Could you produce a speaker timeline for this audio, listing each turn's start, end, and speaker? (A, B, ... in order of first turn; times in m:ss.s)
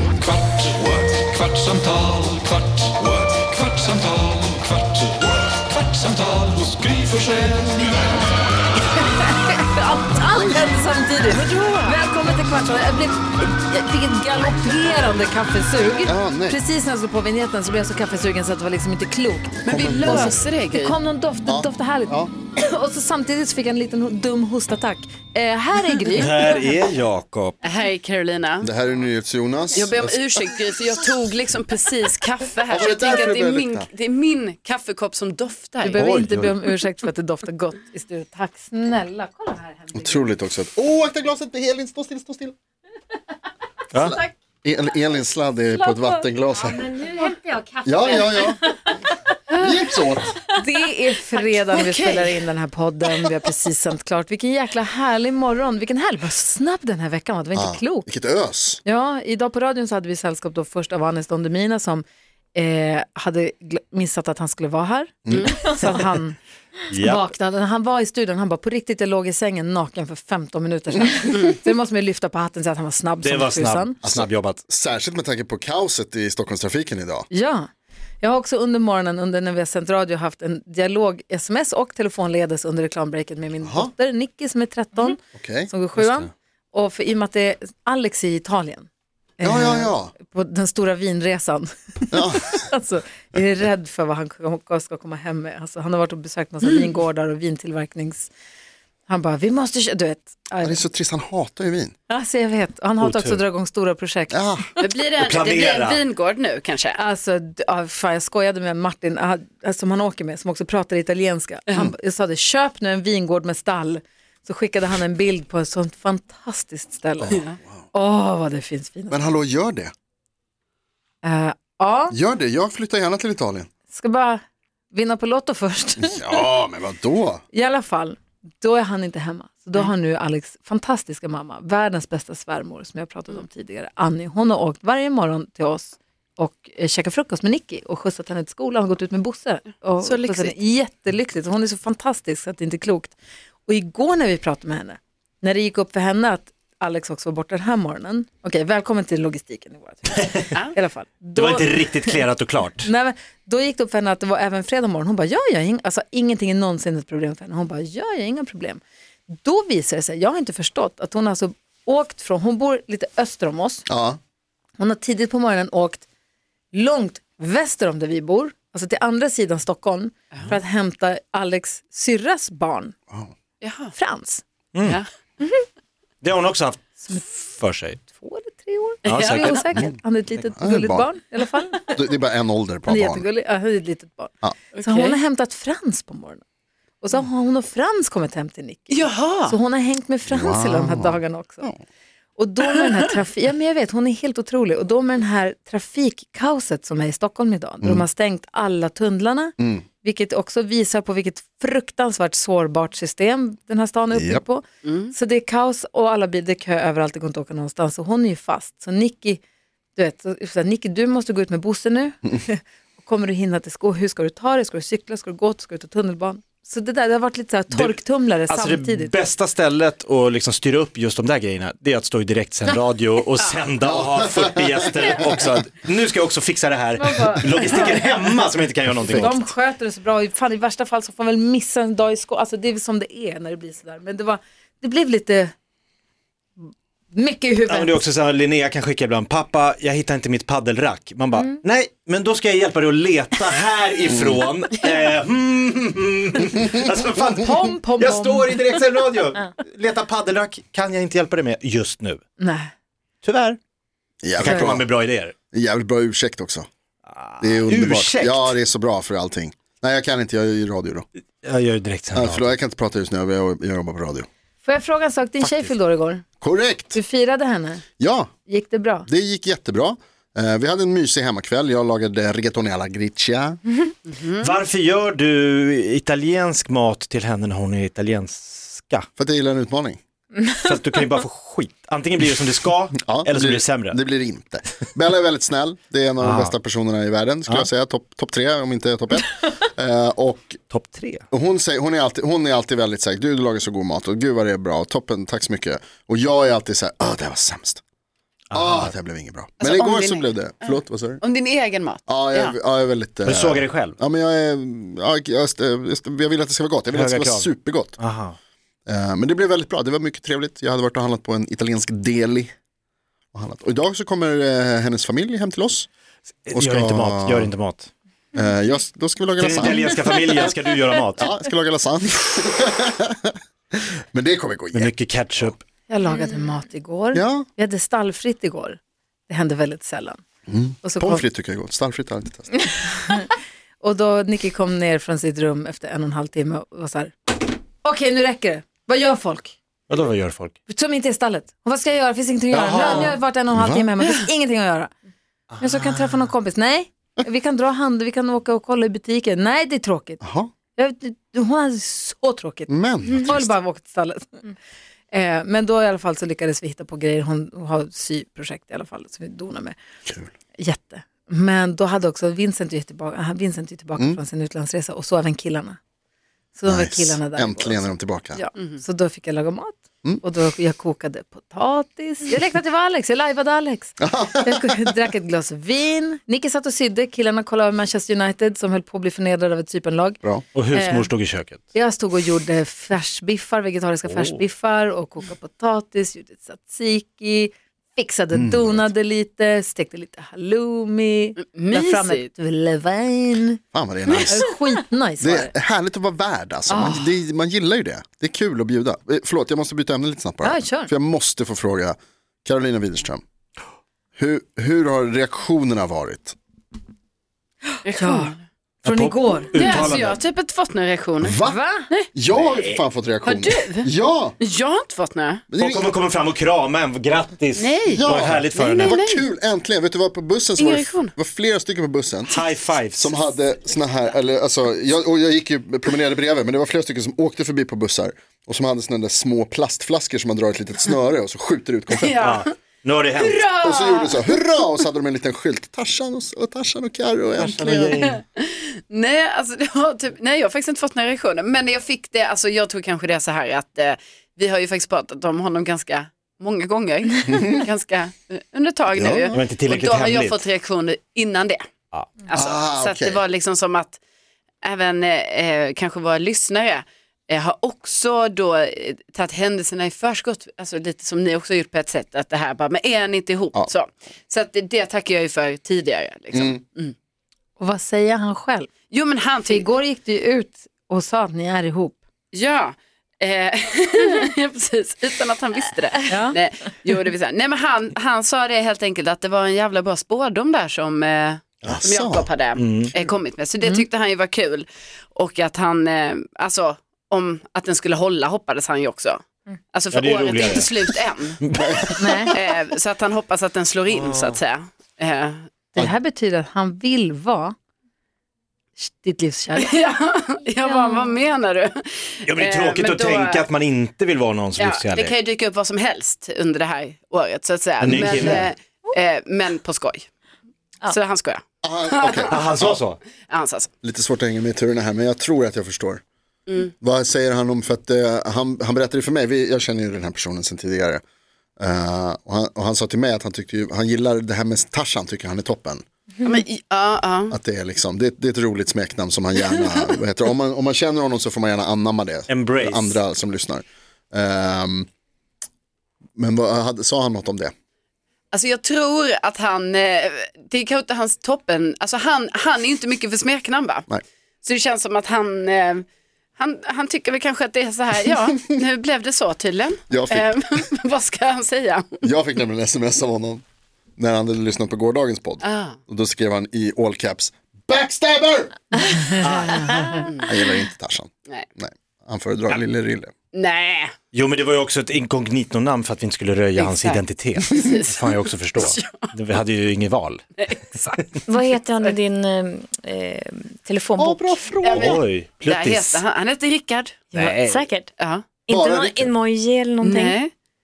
0:00.2-0:07.8 A
0:09.0-0:26.7 B
0:16.0-0:16.6 C
0:19.6-0:21.0 D
0:19.7-0:20.4 C
0:21.5-0:22.3 C
0:26.1-0:27.6 E
0:27.6-0:28.7 D
0:28.6-0:30.3 C
0:29.8-0:36.0 D
0:32.7-0:33.9 C
0:35.8-0:40.3 B
0:36.0-0:36.6 E
0:39.9-0:42.6 C
0:43.9-0:44.2 E
0:44.6-0:46.9 C
0:45.8-0:46.2 B
0:46.6-0:48.9 F
0:47.8-0:48.6 C
0:49.6-0:50.4 C
0:50.5-0:58.1 B
0:51.7-0:52.4 D
0:57.6-0:58.8 C
0:58.8-1:06.4 B
1:05.3-1:05.7 C
1:05.3-1:05.6 D
1:06.9-1:07.3 E
1:06.9-1:14.0 B
1:13.2-1:14.6 E
1:14.0-1:17.3 C
1:17.3-1:38.3 B
1:23.6-1:23.9 C
1:25.3-1:26.1 C
1:29.4-1:30.1 C
1:32.1-1:32.6 C
1:39.1-1:40.8 B
1:40.6-1:41.9 C
1:42.1-1:44.8 B
1:43.0-1:43.4 E
1:44.3-1:44.7 C
1:44.8-1:47.0 D
1:45.2-1:46.0 E
1:47.0-1:57.4 B
1:57.3-1:57.6 D
1:57.9-1:59.3 B
1:59.1-1:59.9 C
2:01.2-2:02.2 B
2:02.1-2:03.7 C
2:03.9-2:06.2 B
2:06.0-2:07.4 C
2:07.5-2:23.2 B
2:20.0-2:20.6 D
2:23.7-2:38.8 B
2:31.4-2:32.9 E
2:39.3-2:43.9 B
2:43.9-2:44.2 C
2:44.8-2:46.0 B
2:46.7-2:53.0 B
2:53.6-2:53.9 D
2:54.0-2:54.4 B
2:54.7-2:55.0 E
2:56.2-2:58.0 E
2:58.1-3:02.0 B
2:59.0-2:59.8 D
2:59.1-2:59.7 E
3:00.6-3:01.1 C
3:01.9-3:03.3 C
3:02.9-3:04.3 B
3:04.7-3:05.2 D
3:04.8-3:06.4 B
3:07.0-3:11.7 B
3:08.9-3:09.6 D
3:10.3-3:11.8 C
3:12.4-3:29.4 B
3:19.6-3:19.8 C
3:24.1-3:24.4 C
3:24.8-3:25.1 D
3:30.0-3:39.2 B
3:37.7-3:38.0 E
3:38.5-3:49.5 E
3:43.9-3:45.4 C
3:47.0-3:48.1 B
3:49.0-3:49.4 C
3:49.1-3:55.5 B
3:57.1-3:58.0 B
3:57.7-4:12.2 E
4:04.1-4:04.4 C
4:07.2-4:09.0 B
4:12.4-4:12.7 B
4:13.2-4:13.6 E
4:14.2-4:14.9 C
4:14.4-4:15.4 E
4:15.5-4:16.7 C
4:17.1-4:18.5 E
4:17.4-4:21.0 C
4:21.4-4:22.6 E
4:22.2-4:24.3 C
4:24.6-4:26.3 B
4:25.4-4:25.7 E
4:26.4-4:27.0 C
4:26.9-4:27.8 B
4:28.0-4:28.3 C
4:28.5-4:29.1 B
4:29.1-4:33.6 C
4:34.1-4:34.6 D
4:34.4-4:39.1 E
4:39.2-4:40.0 C
4:40.6-4:44.0 E
4:42.9-4:50.6 C
4:46.2-4:46.5 E
4:50.7-4:51.3 E
4:51.3-4:57.8 C
4:58.5-4:58.9 E
4:58.5-5:01.2 C
4:59.6-5:02.6 D
5:02.1-5:08.0 C
5:03.2-5:04.0 E
5:06.9-5:08.4 E
5:08.9-5:12.5 C
5:13.3-5:15.9 C
5:16.5-5:17.9 E
5:16.5-5:17.5 C
5:18.4-5:20.0 C
5:19.4-5:21.3 E
5:21.2-5:23.3 C
5:24.1-5:24.9 C
5:24.7-5:25.6 E
5:25.9-5:30.2 B
5:27.1-5:27.5 C
5:30.5-5:32.6 C
5:30.8-5:31.2 B
5:33.8-5:39.6 B
5:39.9-5:40.6 E
5:40.7-5:44.9 B
5:42.5-5:43.2 E
5:43.5-5:43.9 C
5:45.5-5:46.1 E
5:45.6-5:50.2 B
5:50.2-5:50.5 C
5:50.8-5:54.5 B
5:52.7-5:53.6 C
5:55.1-5:59.8 B
6:00.6-6:05.8 B
6:06.6-6:20.2 B
6:06.7-6:08.4 C
6:14.0-6:15.0 C
6:20.5-6:21.6 E
6:20.7-6:21.1 B
6:21.7-6:33.6 B
6:24.1-6:24.4 E
6:28.3-6:28.9 C
6:31.4-6:32.3 D
6:33.7-6:34.5 C
6:34.2-6:35.5 B
6:35.2-6:43.2 C
6:36.7-6:37.1 B
6:40.4-6:40.9 B
6:44.2-6:46.4 C
6:47.8-6:48.4 D
6:48.0-6:48.3 B
6:48.8-6:50.2 E
6:48.8-6:49.9 B
6:49.6-6:51.4 D
6:51.2-6:51.6 C
6:51.4-6:51.9 B
6:52.1-6:54.4 C
6:52.3-6:52.6 E
6:52.6-6:53.9 D
6:54.4-6:55.5 D
6:55.5-6:55.9 C
6:55.6-6:59.0 E
6:57.6-6:59.2 D
6:57.9-7:02.4 C
7:00.6-7:01.1 D
7:02.3-7:03.2 E
7:03.0-7:12.2 C
7:11.9-7:12.5 D
7:12.2-7:13.4 E
7:13.1-7:14.3 D
7:13.6-7:18.1 C
7:17.4-7:18.2 E
7:17.9-7:31.6 D
7:27.3-7:27.6 C
7:29.0-7:29.2 C
7:29.3-7:30.5 E
7:31.9-7:32.2 E
7:32.2-7:34.0 D
7:32.3-7:33.2 C
7:34.6-7:47.0 D
7:46.3-7:46.6 C
7:47.6-7:48.7 B
7:48.9-7:49.7 D
7:49.5-7:52.0 B
7:52.3-8:15.5 D
7:56.1-7:56.4 B
8:01.7-8:02.3 C
8:02.6-8:02.9 E
8:09.9-8:12.3 E
8:11.7-8:12.0 C
8:12.0-8:12.4 B
8:13.9-8:14.4 E
8:15.7-8:17.6 B
8:18.8-8:19.7 B
8:19.6-8:23.5 D
8:20.7-8:21.0 F
8:22.3-8:25.2 E
8:24.6-8:30.1 D
8:27.8-8:28.5 E
8:27.9-8:28.4 C
8:30.8-8:33.7 D
8:31.6-8:32.8 C
8:32.3-8:33.0 E
8:33.8-8:36.0 C
8:36.8-8:41.0 C
8:41.6-8:45.8 C
8:46.2-8:47.4 D
8:47.3-8:54.9 C
8:52.3-8:53.0 E
8:56.2-8:57.5 C
8:58.3-9:03.9 D
9:04.4-9:05.9 D
9:06.4-9:12.0 D
9:09.9-9:10.4 C
9:12.0-9:13.4 C
9:14.0-9:18.6 C
9:15.4-9:15.8 D
9:19.1-9:20.0 E
9:19.6-9:20.4 D
9:20.2-9:23.1 C
9:23.3-9:23.9 D
9:24.1-9:30.2 E
9:26.6-9:29.1 D
9:30.4-9:31.1 D
9:31.3-9:34.4 F
9:34.0-9:35.0 C
9:34.7-9:37.4 D
9:34.7-9:36.0 E
9:37.1-9:37.7 E
9:37.2-9:37.9 F
9:38.0-9:38.3 D
9:38.4-9:40.2 F
9:38.5-9:39.1 C
9:39.8-9:40.3 D